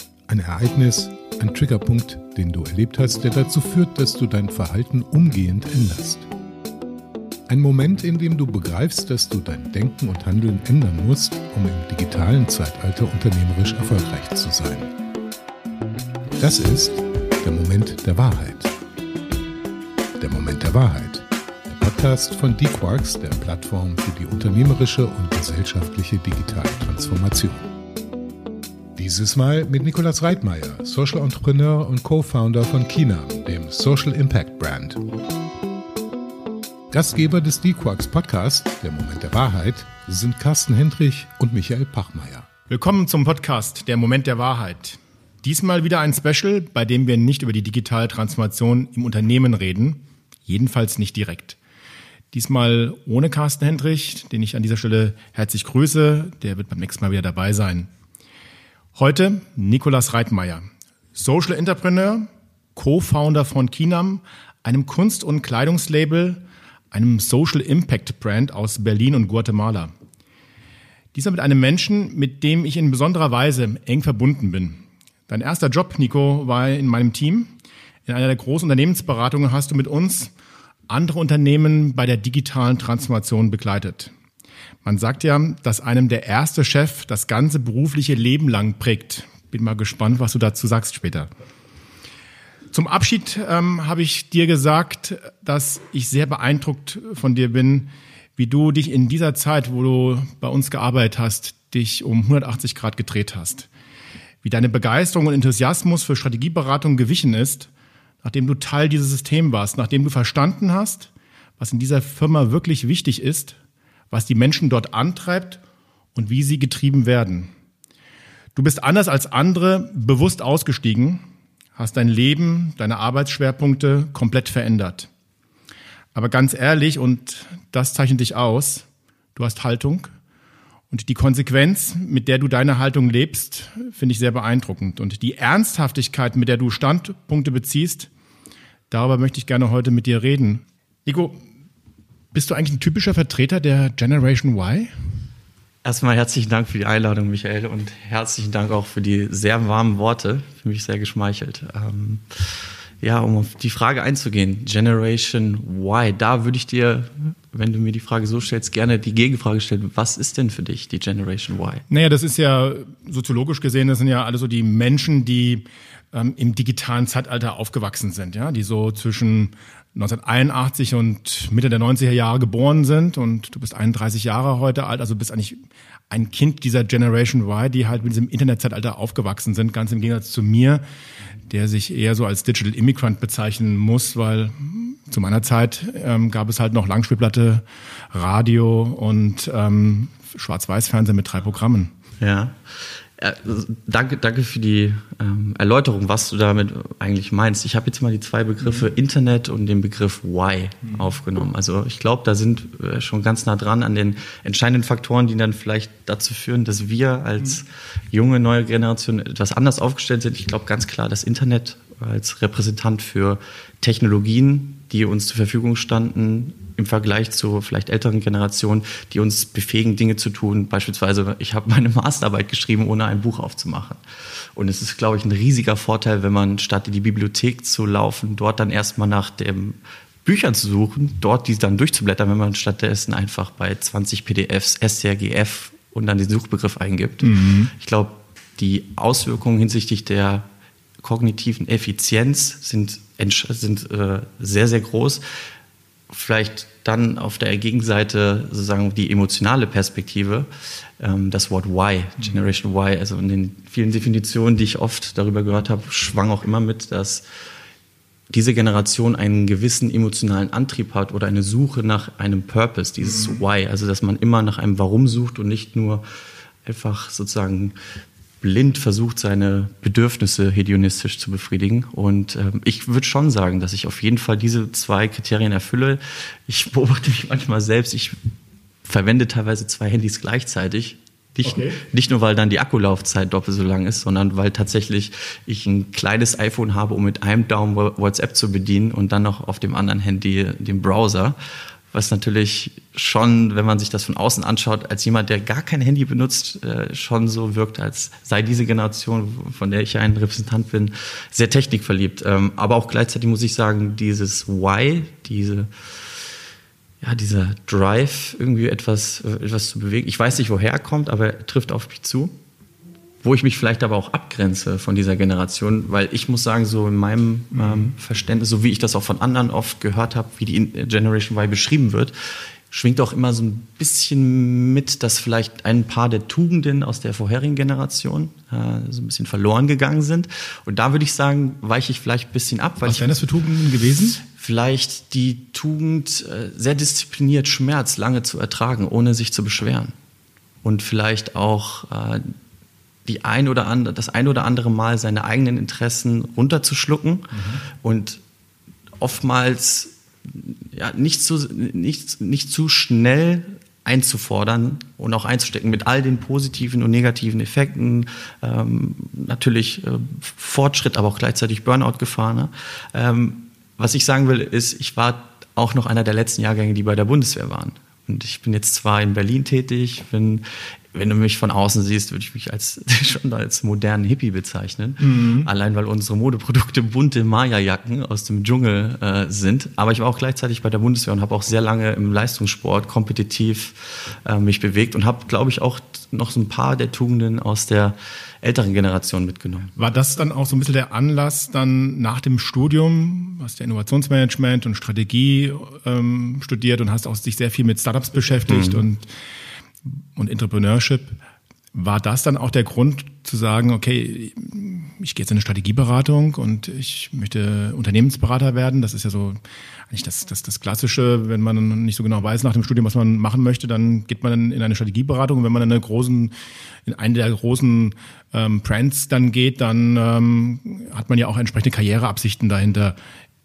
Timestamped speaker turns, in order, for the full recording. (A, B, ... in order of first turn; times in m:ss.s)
0:00.3-0:06.3 A
0:07.5-0:14.9 A
0:16.4-0:18.7 A
0:20.2-0:27.7 A
0:29.0-0:35.0 A
0:36.9-0:42.5 A
0:42.7-0:51.6 B
0:52.3-0:57.9 B
0:58.9-1:09.9 B
1:11.1-1:17.5 B
1:18.0-1:20.3 B
1:20.9-1:24.1 B
1:24.8-1:31.3 B
1:32.7-1:43.7 B
1:44.4-1:47.7 B
1:48.2-1:53.6 B
1:54.1-1:55.6 B
1:56.1-1:57.5 B
1:58.5-2:01.2 B
2:01.8-2:05.1 B
2:06.1-2:10.1 B
2:10.9-2:18.1 B
2:18.9-2:21.4 B
2:22.3-2:24.9 B
2:25.8-2:41.8 C
2:41.9-3:00.8 B
3:01.4-3:11.9 B
3:12.2-3:44.0 C
3:44.5-4:00.4 C
3:57.2-3:57.7 B
4:01.0-4:05.2 C
4:06.1-4:10.5 C
4:11.0-4:17.2 C
4:18.3-4:26.0 C
4:23.0-4:23.4 B
4:26.6-4:27.7 C
4:28.4-4:38.2 C
4:38.8-4:51.4 C
4:41.4-4:41.8 B
4:51.9-5:05.7 C
5:07.0-5:12.3 C
5:13.2-5:22.1 C
5:17.5-5:17.9 B
5:22.7-5:33.1 C
5:32.8-5:34.2 B
5:34.3-5:39.9 C
5:40.6-5:42.3 C
5:43.0-5:48.2 C
5:47.4-5:47.6 B
5:49.0-6:29.7 C
6:15.0-6:15.5 B
6:29.8-6:39.1 B
6:38.5-6:38.8 C
6:39.8-6:41.2 B
6:41.7-6:56.3 B
6:56.8-7:03.0 B